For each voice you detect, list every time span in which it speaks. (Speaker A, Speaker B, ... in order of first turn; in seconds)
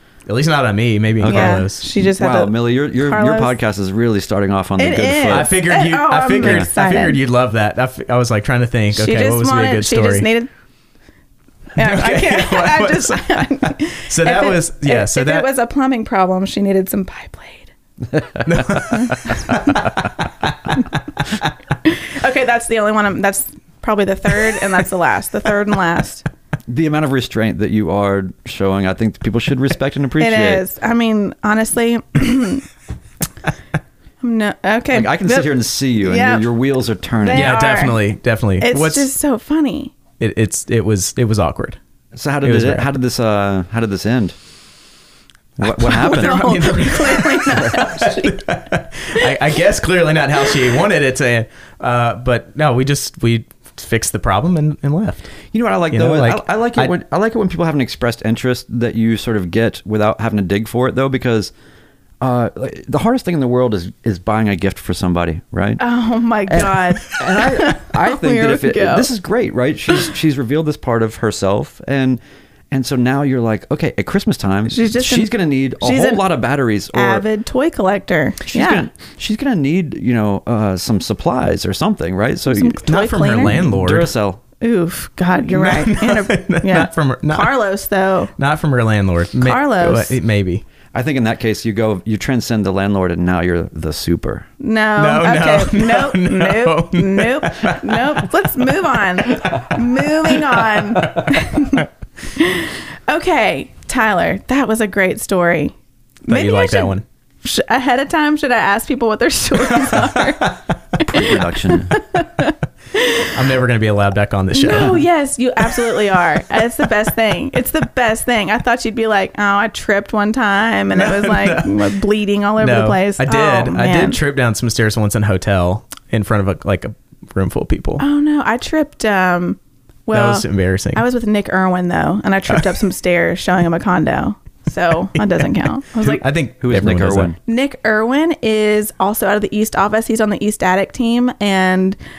Speaker A: 0.2-1.8, 5.3-10.3, 11.8-15.5, 18.4-21.5, 37.3-39.1, 40.2-41.8, 42.4-42.9, 45.8-55.3, 55.9-56.9, 82.8-84.1, 85.5-87.5, 88.4-90.6, 95.0-98.3, 99.2-101.1, 106.3-107.0, 109.7-110.5, 113.3-115.0, 115.7-116.6, 120.9-121.9, 122.6-128.0, 130.1-131.0, 135.2-135.4, 136.0-137.3
Speaker B: 1.2-5.5, 6.4-6.7, 18.4-18.8, 26.7-30.6, 34.9-37.5, 42.1-44.3, 45.6-46.6, 55.5-61.5, 62.2-65.8, 66.5-72.2, 72.7-77.2, 78.4-84.4, 90.9-94.5, 111.0-112.0, 136.6-137.4
Speaker C: 1.2-3.5, 4.8-7.2, 8.9-10.5, 11.8-17.7, 18.7-19.4, 21.8-26.2, 30.2-32.6, 34.2-36.5, 37.2-38.0, 38.6-39.9, 45.8-48.4, 65.8-69.1, 74.7-76.2, 76.9-78.8, 82.5-83.7, 84.6-88.3, 89.4-90.2, 94.6-105.7, 106.3-113.3, 114.5-124.2, 128.0-136.2, 137.4-142.0